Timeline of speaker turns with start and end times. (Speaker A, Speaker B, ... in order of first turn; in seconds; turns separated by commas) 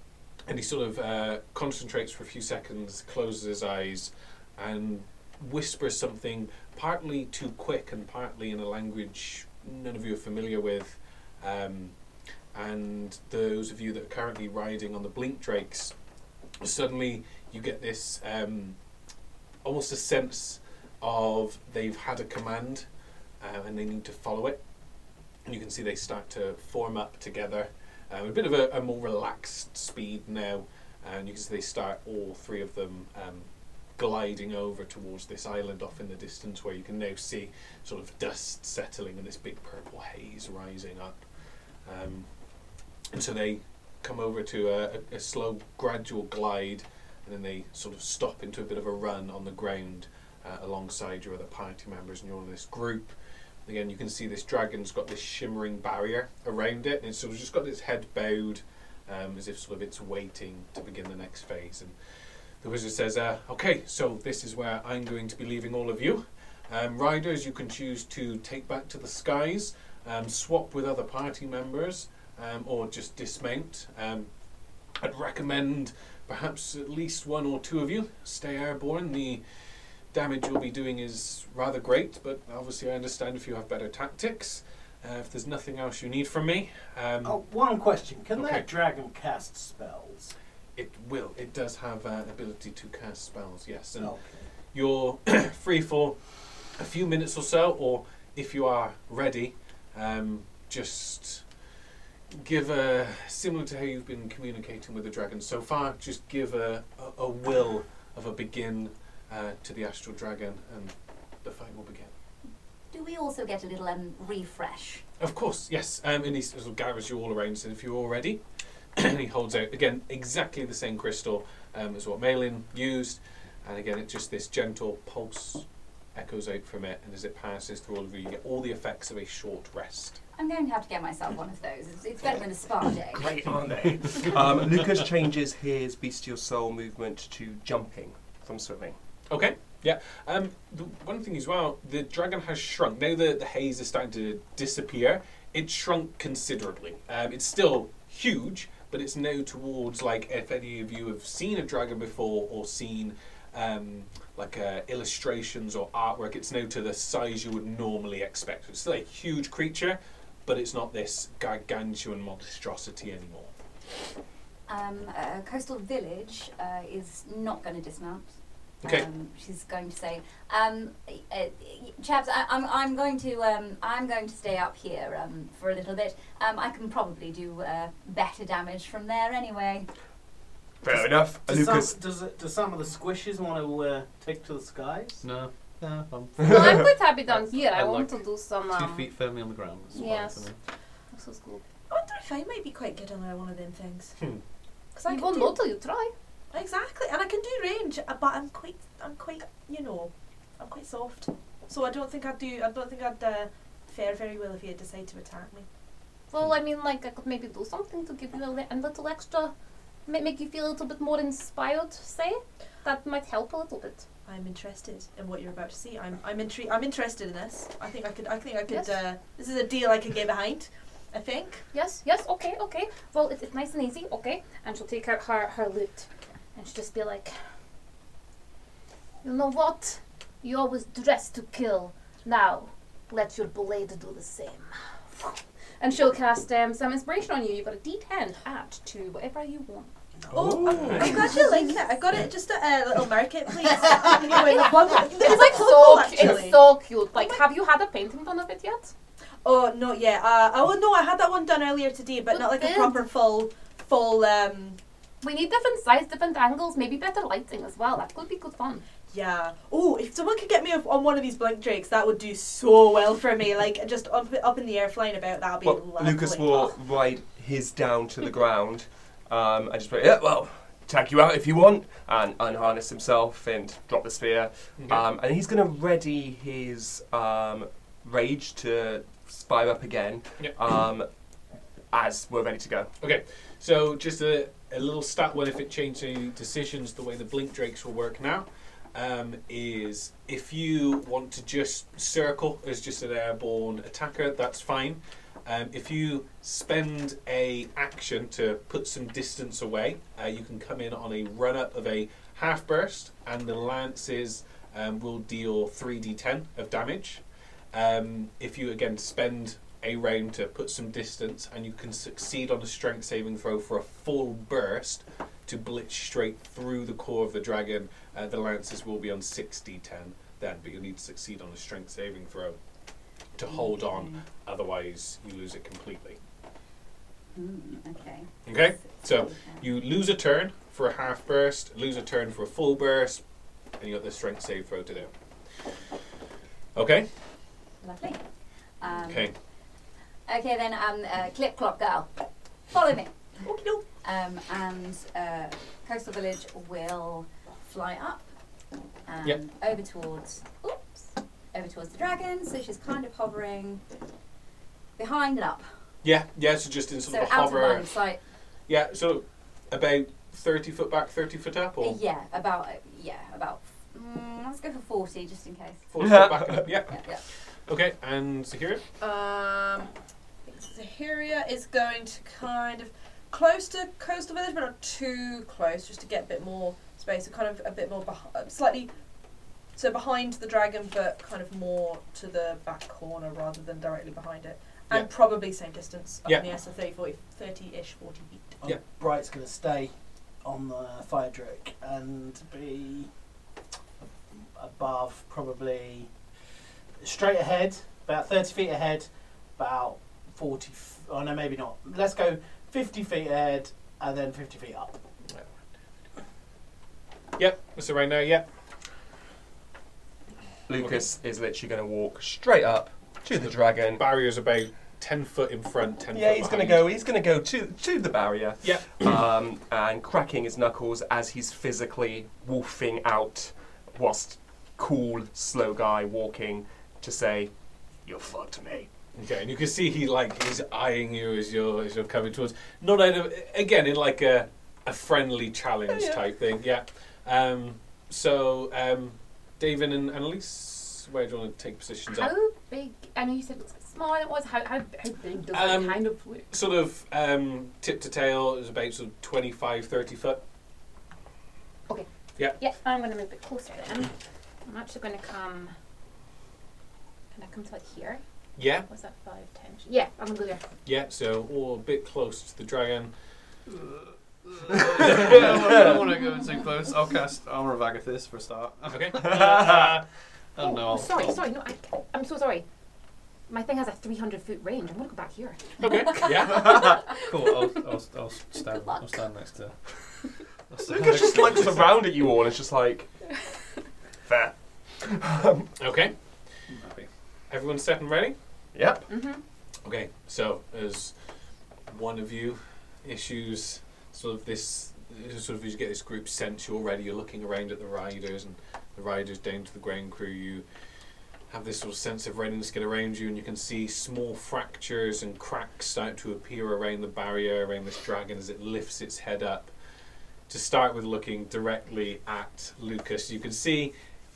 Speaker A: 0.5-11.9, Speaker A: 12.5-15.9, Speaker A: 16.6-18.8, Speaker A: 19.6-22.8, Speaker A: 23.4-24.6, Speaker A: 25.4-41.2, Speaker A: 41.8-42.3, Speaker A: 43.1-53.1, Speaker A: 53.6-61.9, Speaker A: 62.6-74.3, Speaker A: 75.0-79.4, Speaker A: 80.1-87.4, Speaker B: 87.2-90.3, Speaker A: 88.3-88.7, Speaker A: 90.8-94.2, Speaker B: 94.0-94.5, Speaker A: 94.7-96.2, Speaker A: 96.8-101.4, Speaker A: 102.3-110.9, Speaker A: 111.4-112.1, Speaker C: 112.9-115.0, Speaker A: 115.2-118.4, Speaker A: 119.0-130.2, Speaker C: 130.3-133.4, Speaker D: 133.2-138.9, Speaker A: 139.3-163.5, Speaker C: 164.7-168.3, Speaker C: 168.8-179.9, Speaker D: 180.8-182.0, Speaker B: 180.8-185.2, Speaker E: 185.2-190.6, Speaker F: 186.4-189.1, Speaker F: 189.9-190.5, Speaker F: 191.1-191.6, Speaker G: 191.9-194.1, Speaker G: 194.9-195.6, Speaker F: 195.1-196.1, Speaker G: 196.5-205.7, Speaker F: 206.3-209.5, Speaker F: 210.1-214.0, Speaker G: 214.2-221.6, Speaker F: 218.7-218.9, Speaker F: 221.7-227.3, Speaker F: 229.2-239.9, Speaker B: 240.2-241.0, Speaker D: 240.3-241.2, Speaker G: 240.3-246.6, Speaker A: 240.7-241.0, Speaker F: 244.3-248.9, Speaker G: 249.4-254.8, Speaker F: 252.3-253.0, Speaker F: 255.2-258.8, Speaker G: 259.1-266.7, Speaker D: 265.6-281.1, Speaker D: 281.9-282.9, Speaker A: 283.0-322.6, Speaker A: 323.3-326.2, Speaker C: 323.5-324.2, Speaker C: 327.3-328.3, Speaker A: 328.4-333.2, Speaker C: 328.9-329.6, Speaker A: 333.8-335.1, Speaker A: 336.8-337.1, Speaker C: 337.8-338.2, Speaker C: 338.8-339.3, Speaker A: 339.0-339.3, Speaker C: 340.3-342.1, Speaker C: 342.7-343.2, Speaker G: 343.4-343.9, Speaker C: 344.0-348.3, Speaker C: 349.1-353.8, Speaker C: 355.0-355.7, Speaker A: 356.0-357.9, Speaker C: 357.1-358.2, Speaker A: 358.7-362.0, Speaker C: 361.8-365.8, Speaker A: 365.9-367.0, Speaker D: 366.0-366.8, Speaker C: 366.9-367.2, Speaker A: 367.7-368.8, Speaker G: 369.0-369.9, Speaker G: 370.4-378.9, Speaker G: 379.7-388.6, Speaker B: 388.6-389.9, Speaker B: 390.4-393.1, Speaker B: 394.5-396.1, Speaker B: 397.0-405.0, Speaker A: 407.4-408.5, Speaker D: 410.7-414.0, Speaker A: 410.8-411.0, Speaker A: 413.3-416.9, Speaker D: 416.1-427.5, Speaker A: 418.6-419.1, Speaker D: 428.0-428.9, Speaker A: 429.1-442.3, Speaker F: 442.1-446.4, Speaker A: 445.5-450.4, Speaker F: 451.9-454.1, Speaker F: 454.6-455.7, Speaker F: 457.3-458.2, Speaker A: 458.6-458.9, Speaker F: 458.9-460.6, Speaker A: 460.8-463.1, Speaker E: 463.8-470.0, Speaker A: 465.1-465.4, Speaker A: 468.9-469.6, Speaker E: 470.5-471.4, Speaker F: 470.6-472.6, Speaker F: 473.5-477.6, Speaker A: 475.8-477.0, Speaker E: 476.4-479.7, Speaker F: 478.7-479.1, Speaker E: 480.7-482.1, Speaker D: 480.9-483.1, Speaker D: 484.2-485.7, Speaker A: 485.8-486.1, Speaker E: 486.7-487.1, Speaker A: 487.5-488.3, Speaker D: 488.7-489.1, Speaker F: 489.1-489.4, Speaker A: 489.8-491.1, Speaker A: 491.9-500.6, Speaker A: 501.5-509.7, Speaker A: 510.5-513.9